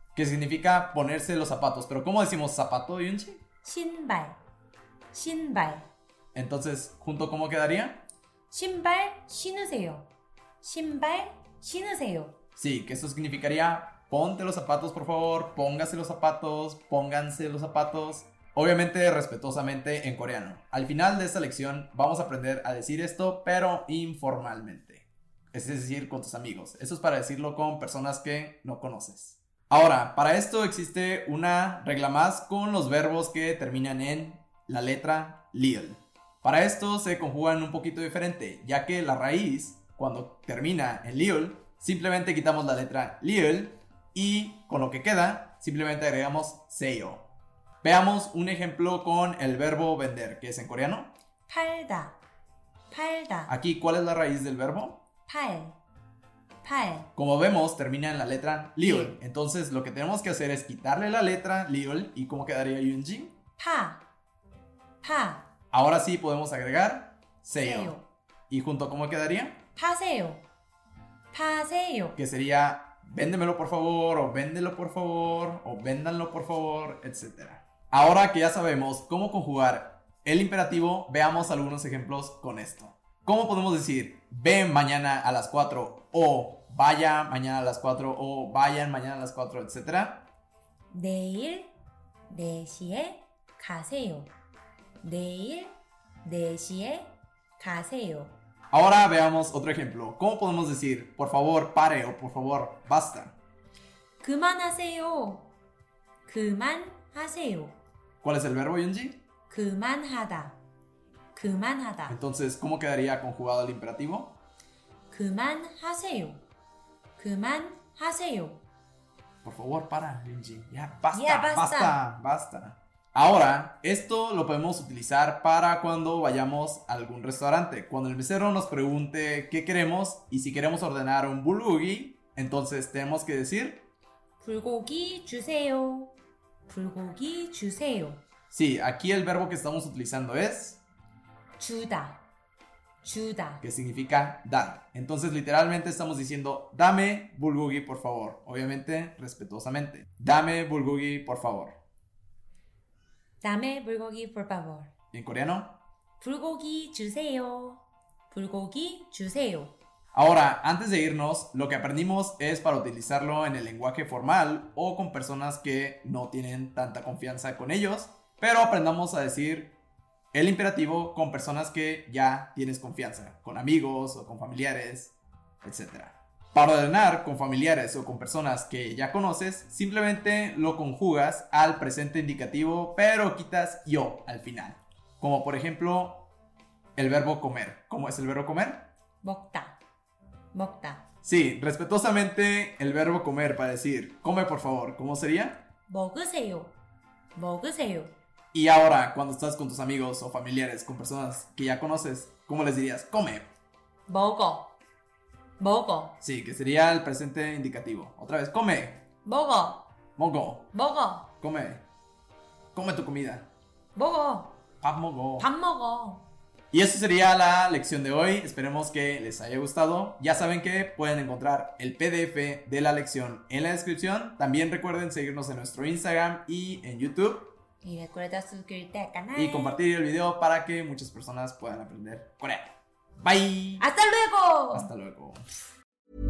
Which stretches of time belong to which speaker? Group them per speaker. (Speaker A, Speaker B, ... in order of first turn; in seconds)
Speaker A: 0.1-3.4, 6.3-8.0, 12.6-47.3, 47.8-51.1, 53.5-55.0, 57.2-63.3, 65.7-69.6, 72.2-90.3, 98.7-103.4, 108.2-109.2, 112.1-114.4, 119.4-133.9, 138.5-140.8, 143.6-151.8, 155.1-155.8, 160.1-169.8, 170.3-186.3, 187.0-188.9, 191.2-195.6, 198.5-203.5, 206.2-209.0, 210.2-210.7, 211.4-211.8, 212.8-213.5, 214.8-215.5, 216.7-227.5, 229.3-233.8, 234.7-235.4
Speaker B: 3.6-4.4, 5.1-5.9, 8.5-10.1, 10.6-12.4, 51.5-52.2, 52.9-53.5, 55.3-55.8, 56.6-57.1, 58.8-59.2, 63.6-64.0, 65.0-65.5, 67.6-68.0, 69.8-70.5, 71.3-72.2, 90.9-91.7, 92.3-94.3, 95.0-98.3, 104.2-105.5, 106.3-107.8, 109.5-110.6, 111.3-112.2, 115.1-116.4, 117.2-118.6, 121.1-122.0, 134.4-136.1, 136.7-138.2, 141.6-142.2, 143.0-143.6, 153.4-154.9, 156.2-159.8, 189.2-189.8, 190.5-191.1, 195.9-196.8, 197.3-198.1, 204.1-204.7, 205.6-206.2, 209.2-209.9, 210.7-211.3, 213.9-214.6, 215.4-216.2, 227.8-229.8, 233.8-234.9